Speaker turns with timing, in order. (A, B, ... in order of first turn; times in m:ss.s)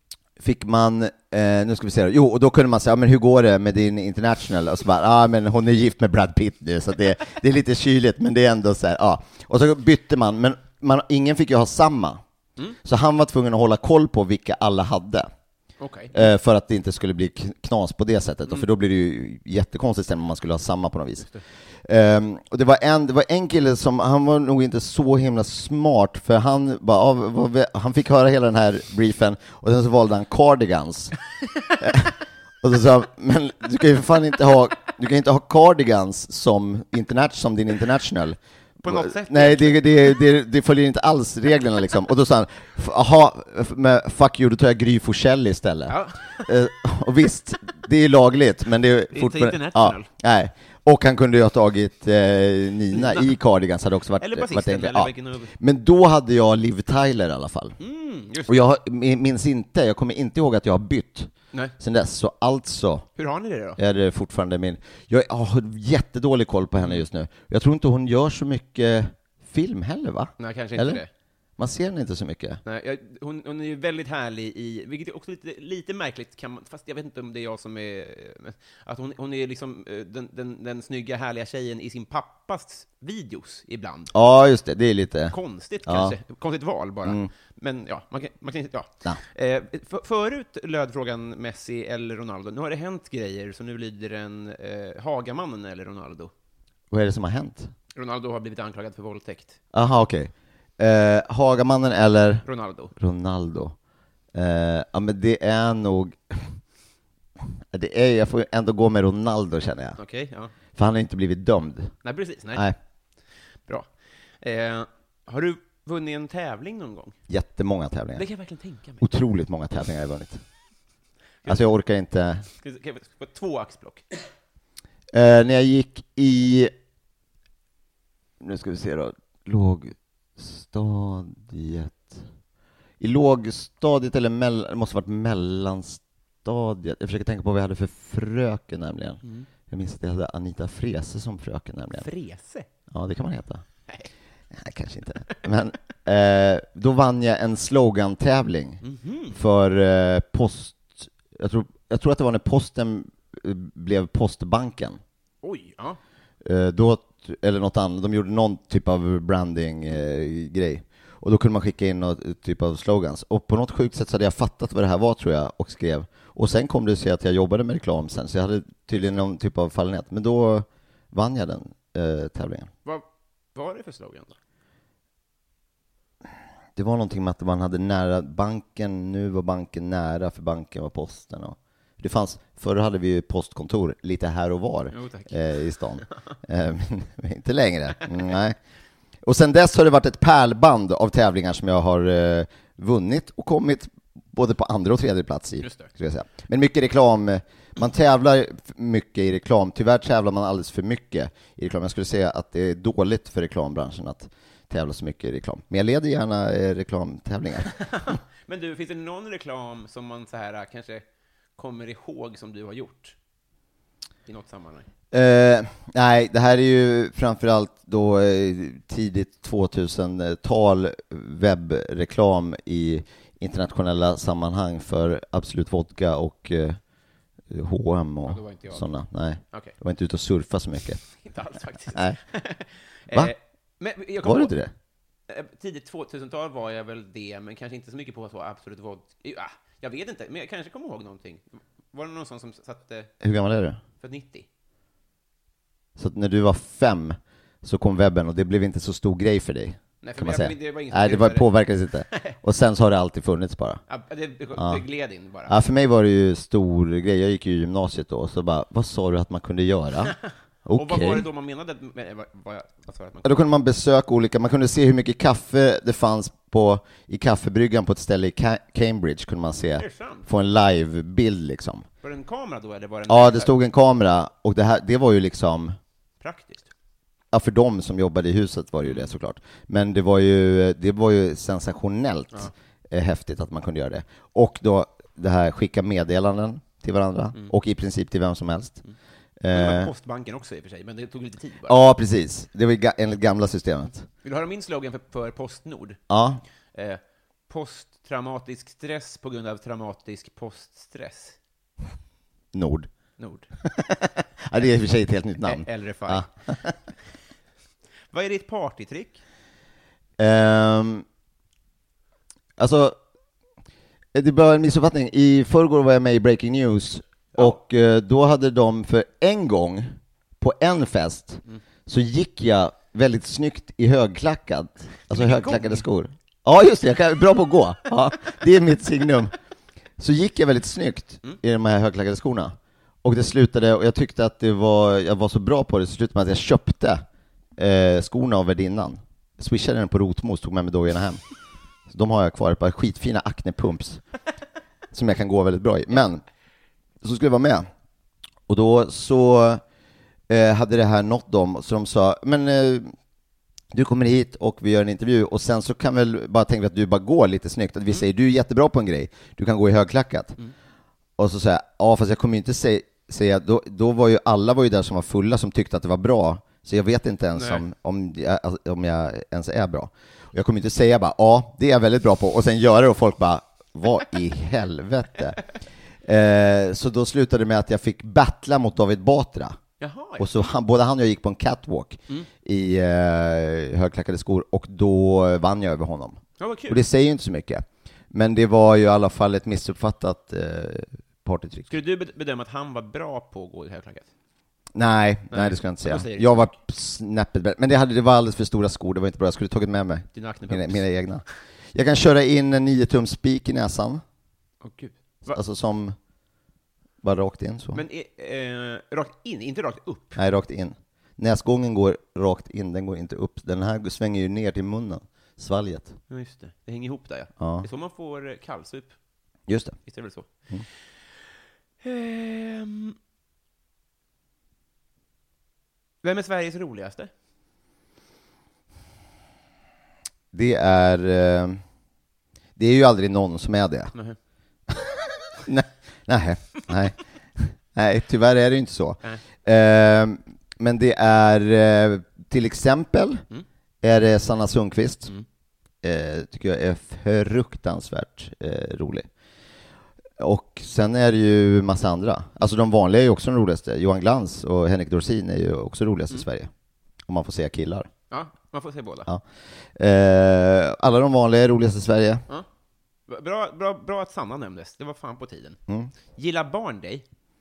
0:00.4-0:12.2 A
0:12.8-0:15.3 A
0:15.8-0:16.1 B
0:16.1-0:21.3 A
0:21.8-0:31.2 A
0:31.8-0:57.8 A
0:38.8-0:40.1 B
0:45.9-0:46.5 B
0:49.1-0:50.1 B
0:52.9-0:53.3 B
0:54.2-0:55.5 B
0:57.8-0:58.6 B
0:58.5-1:03.0 A
1:03.2-1:03.8 B
1:03.8-1:11.0 A
1:10.4-1:11.1 B
1:11.6-1:12.6 A
1:12.6-1:24.1 B
1:24.1-1:26.2 A
1:25.3-1:36.3 B
1:36.9-1:37.7 A
1:38.0-1:39.6 B
1:39.7-1:42.4 A
1:42.4-1:42.9 B
1:43.0-1:43.7 A
1:44.3-1:46.6 A
1:47.7-1:50.0 A
1:50.0-1:50.5 B
1:50.8-1:51.9 A
1:52.0-1:52.7 B
1:54.4-1:57.2 B
1:57.3-1:58.2 A
1:58.2-1:59.0 B
1:59.0-2:00.4 A
2:01.4-2:02.5 A
2:02.6-2:04.0 B
2:05.1-2:06.7 A
2:08.4-2:12.2 A
2:13.0-2:22.1 A
2:22.0-2:22.7 B
2:22.9-2:23.6 A
2:24.5-2:35.0 A
2:28.8-2:29.4 B
2:35.4-2:36.0 B
2:36.4-2:52.7 A
2:52.8-2:54.3 B
2:56.8-3:08.6 A
3:04.9-3:05.5 B
3:09.2-3:27.7 A
3:15.6-3:15.9 B
3:27.7-3:31.0 B
3:31.6-3:33.1 B
3:34.3-3:34.8 B
3:35.1-3:46.8 A
3:47.5-3:51.0 A
3:48.3-3:48.9 B
3:51.2-3:54.5 B
3:54.2-3:54.7 A
3:55.3-4:03.1 B
4:03.2-4:03.8 A
4:04.0-4:04.4 B
4:06.0-4:13.8 A
4:10.0-4:11.5 B
4:12.1-4:12.3 B
4:13.9-4:15.5 B
4:14.6-4:14.8 A
4:15.5-4:20.1 A
4:20.6-4:21.2 A
4:20.7-4:23.4 B
4:23.2-4:31.8 A
4:29.8-4:30.2 B
4:32.0-4:33.5 B
4:33.1-4:35.8 A
4:36.2-4:36.7 B
4:37.3-4:48.8 A
4:38.8-4:39.1 B
4:49.4-4:49.9 A
4:49.5-4:51.8 B
4:51.7-4:54.1 A
4:54.2-4:56.0 B
4:56.1-4:56.4 A
4:56.7-5:01.4 B
5:02.5-5:02.9 A
5:03.2-5:03.4 B
5:03.6-5:06.7 A
5:05.4-5:06.3 B
5:08.1-5:09.2 B
5:10.2-5:11.0 A
5:12.6-5:13.0 A
5:14.1-5:29.3 A
5:25.1-5:25.8 B
5:30.0-5:37.0 A
5:37.6-5:41.2 A
5:41.9-5:44.0 A
5:44.9-5:46.2 A
5:47.0-5:47.7 A
5:48.5-5:49.6 A
5:50.3-5:52.9 A
5:53.7-6:00.4 A
6:01.2-6:15.4 A
6:07.4-6:07.6 B
6:16.0-6:19.6 A
6:19.8-6:20.3 B
6:20.2-6:31.7 A
6:26.4-6:26.8 B
6:31.7-6:34.1 B
6:34.7-6:44.0 A
6:35.3-6:36.5 B
6:40.1-6:40.8 B
6:44.6-6:45.4 B
6:45.3-6:46.0 A
6:47.0-6:47.8 A
6:47.7-6:50.2 B
6:50.2-6:56.0 A
6:56.1-6:58.9 B
6:57.4-6:57.6 A
6:59.5-6:59.8 A
6:59.9-7:00.3 B
7:01.8-7:03.0 B
7:06.0-7:07.1 B
7:10.3-7:11.6 A
7:12.6-7:13.9 A
7:14.7-7:23.2 A
7:23.8-7:25.1 A
7:25.8-7:29.1 A
7:30.2-7:36.5 A
7:37.1-7:37.9 A
7:38.1-7:39.1 B
7:39.8-7:42.2 A
7:43.1-7:45.6 B
7:46.2-7:47.0 B